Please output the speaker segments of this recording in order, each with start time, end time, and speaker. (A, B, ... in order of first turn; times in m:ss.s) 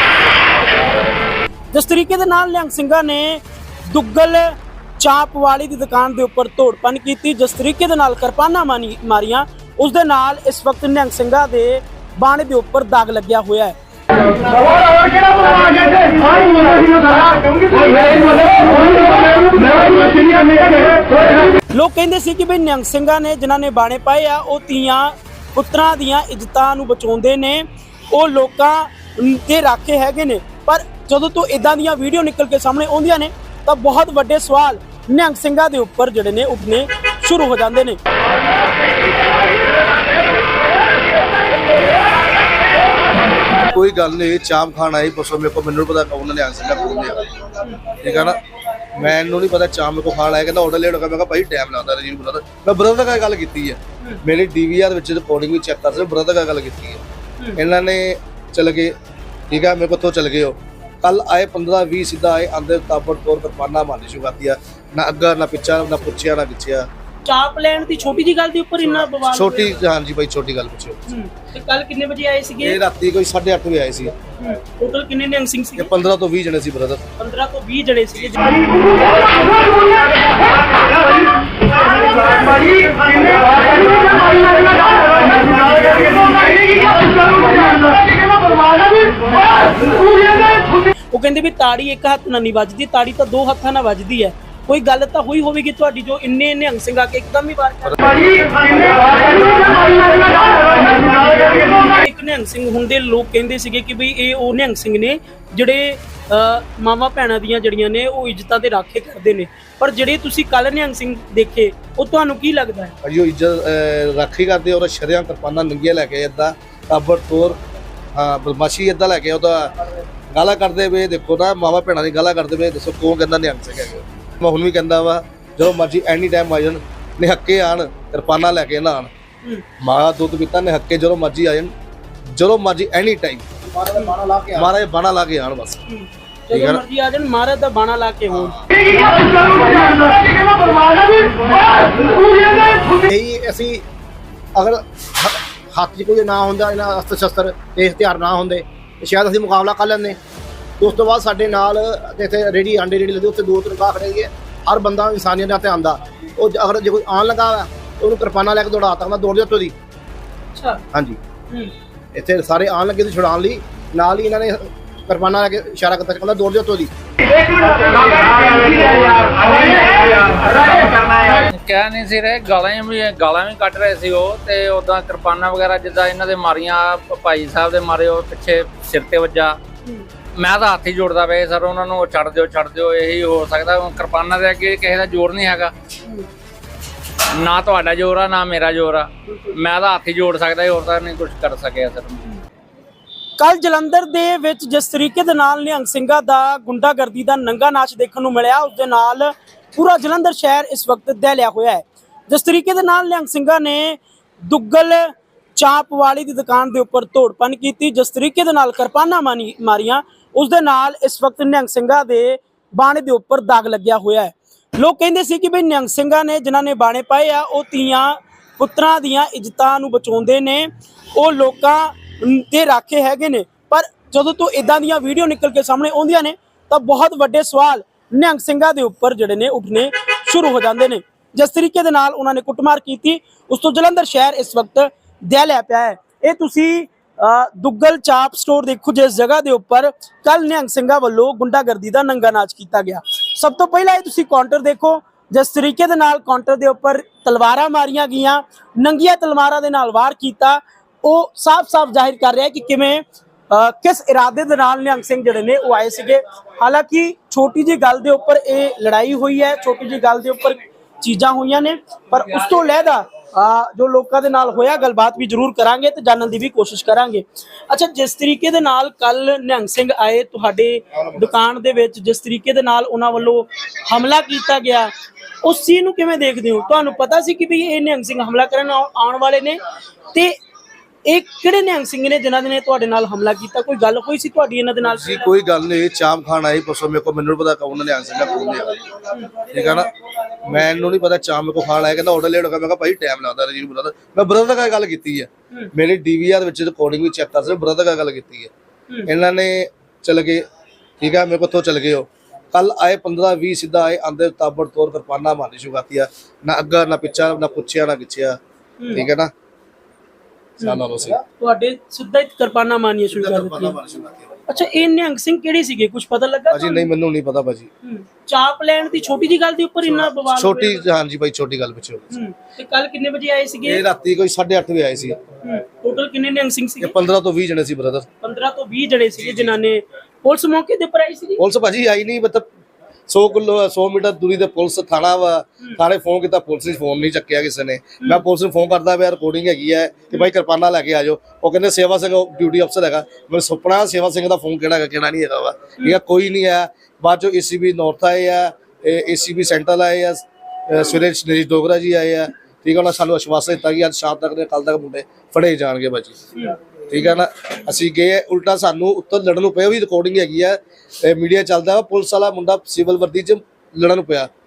0:01.7-0:38.0 A
0:43.7-0:47.4 B
0:47.6-0:48.3 A
0:47.9-0:48.4 B
0:48.9-0:57.0 B
0:57.6-0:58.9 B
0:59.5-1:06.9 B
1:07.2-1:09.8 A
1:08.9-1:11.0 B
1:11.1-1:12.8 A
1:12.6-1:14.1 B
1:14.4-1:15.9 A
1:15.8-1:17.0 B
1:17.2-1:19.9 A
1:22.0-1:27.9 A
1:31.1-1:39.6 A
1:40.3-1:52.9 A
1:53.0-1:57.6 B
1:58.2-1:59.7 B
2:00.3-2:09.1 B
2:09.8-2:11.7 B
2:12.3-2:13.5 B
2:13.6-2:14.7 C
2:14.6-2:15.8 B
2:15.9-2:18.6 A
2:16.5-2:16.8 B
2:18.3-2:18.8 B
2:21.1-2:21.8 A
2:22.9-2:23.8 C
2:24.6-2:30.2 C
2:30.8-2:39.7 C
2:40.5-2:40.8 A
2:40.9-2:41.2 C
2:42.1-2:46.9 C
2:48.5-2:59.6 D
3:00.4-3:05.7 D
3:07.4-3:12.2 D
3:09.3-3:09.6 A
3:13.4-4:34.9 A
4:35.4-4:39.6 A
4:41.1-4:45.3 A
4:44.9-4:48.8 B
4:49.5-4:49.9 B
4:50.4-4:58.5 B
4:59.1-5:00.4 B
5:01.0-5:08.4 B
5:08.8-5:09.1 A
5:08.9-5:09.3 B
5:10.6-5:11.2 B
5:11.4-5:13.8 A
5:13.1-5:14.4 B
5:14.5-5:16.9 A
5:16.5-5:17.7 B
5:17.8-5:20.9 A
5:20.0-5:22.2 B
5:22.1-5:23.8 A
5:23.7-5:25.2 B
5:25.4-5:27.0 A
5:26.8-5:28.1 B
5:28.2-5:31.4 A
5:31.4-5:32.5 B
5:33.1-5:56.2 B
5:56.4-5:57.2 A
5:56.9-6:04.3 B